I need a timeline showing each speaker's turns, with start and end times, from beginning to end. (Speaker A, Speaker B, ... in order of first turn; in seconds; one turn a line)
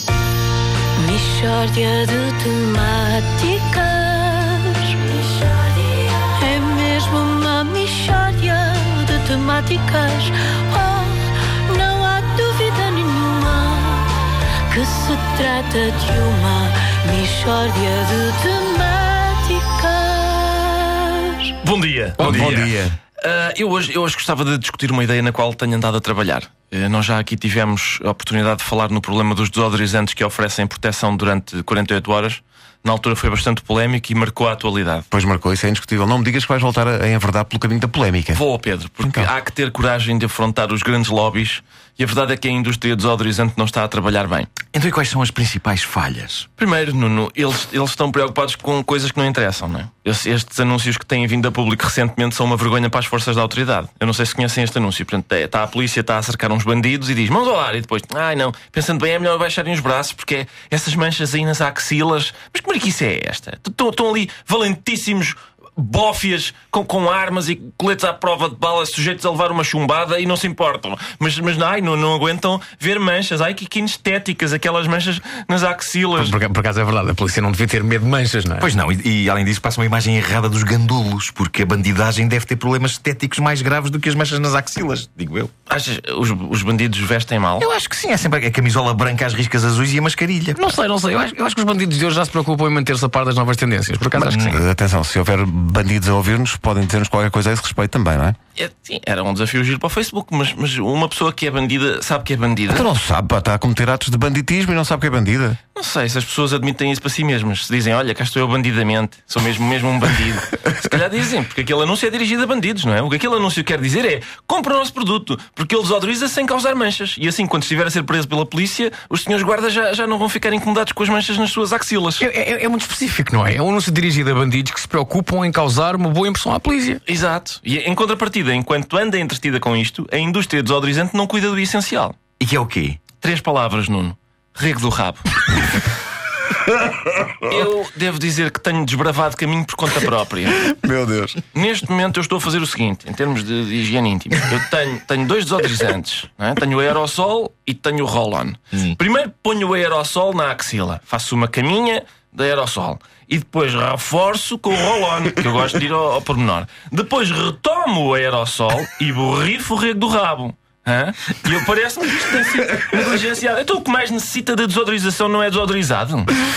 Speaker A: 1.0-21.5
Speaker B: 21.6-35.1
Speaker C: 22.2-23.0
Speaker C: 35.1-38.4
Speaker B: 38.3-44.5
Speaker C: 39.0-39.3
Speaker D: 44.7-46.5
Speaker B: 46.6-76.3
Speaker E: 76.2-78.7
Speaker D: 78.6-85.5
Speaker B: 85.7-87.7
Speaker D: 87.6-90.7
Speaker E: 90.5-94.5
Speaker D: 94.2-94.6
Speaker C: 94.3-98.4
Speaker B: 98.6-102.9
Speaker C: 102.7-105.6
Speaker B: 105.8-122.2
Speaker E: 122.2-127.0
Speaker B: 127.1-132.2
Speaker D: 132.4-133.0
Speaker B: 133.2-135.2
Speaker B: 137.5-140.6
Speaker C: 140.6-141.4
Speaker B: 141.5-166.3